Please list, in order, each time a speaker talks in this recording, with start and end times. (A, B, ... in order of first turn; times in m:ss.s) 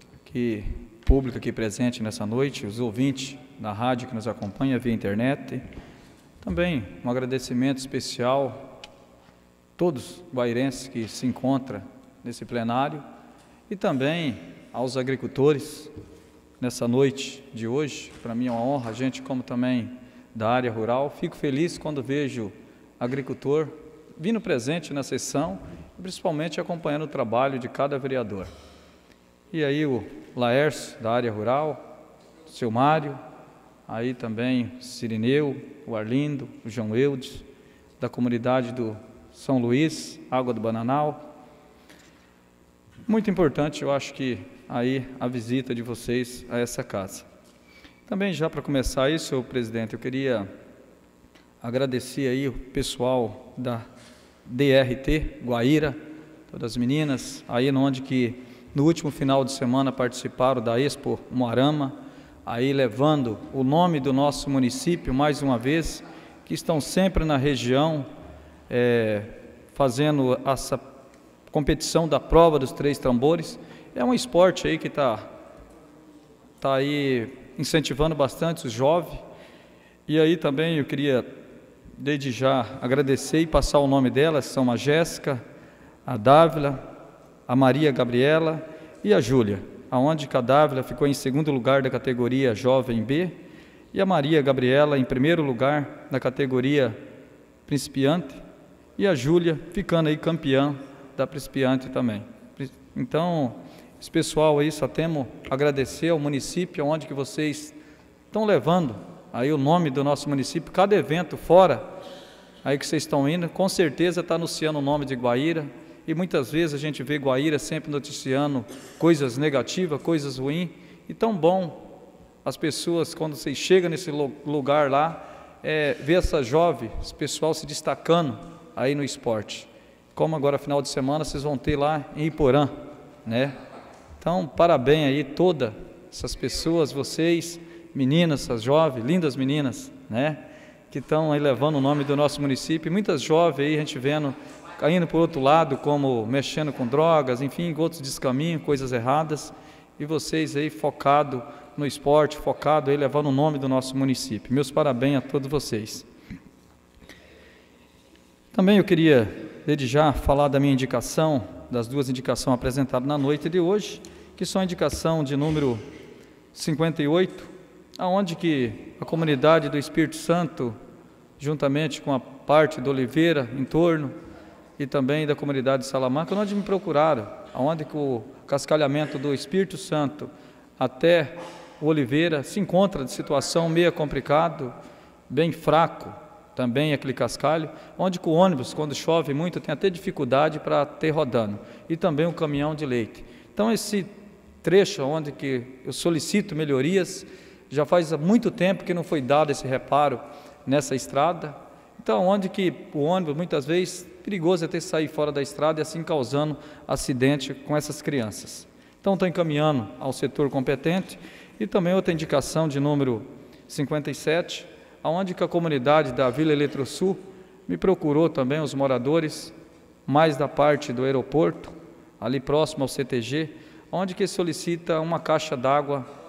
0:00.2-0:05.6 A
0:06.4-0:08.6 A
0:09.8-0:13.0 A
0:13.7-0:15.9 A
0:16.6-0:28.5 A
0:29.5-0:31.8 A
0:32.5-0:33.2 A
0:33.9-0:37.4 A
0:38.0-0:41.2 A
0:43.1-0:47.3 A
0:48.1-0:50.5 A
0:51.6-0:53.8 A
0:54.4-0:56.0 A
0:56.5-1:02.0 A
1:02.5-1:08.1 A
1:08.7-1:10.8 A
1:11.5-1:15.3 A
1:16.6-1:19.2 A
1:20.1-1:21.3 A
1:22.0-1:25.4 A
1:26.1-1:26.8 A
1:27.5-1:33.3 A
1:33.9-1:37.0 A
1:37.7-1:38.4 A
1:39.0-1:47.8 A
1:48.3-1:51.8 A
1:52.6-2:01.8 A
2:02.4-2:12.7 A
2:13.2-2:13.6 A
2:14.2-2:36.1 A
2:38.5-2:45.8 A
2:46.5-2:50.8 A
2:51.4-2:54.1 A
2:54.8-3:04.7 A
3:05.3-3:14.1 A
3:14.6-3:39.5 A
3:40.1-3:46.1 A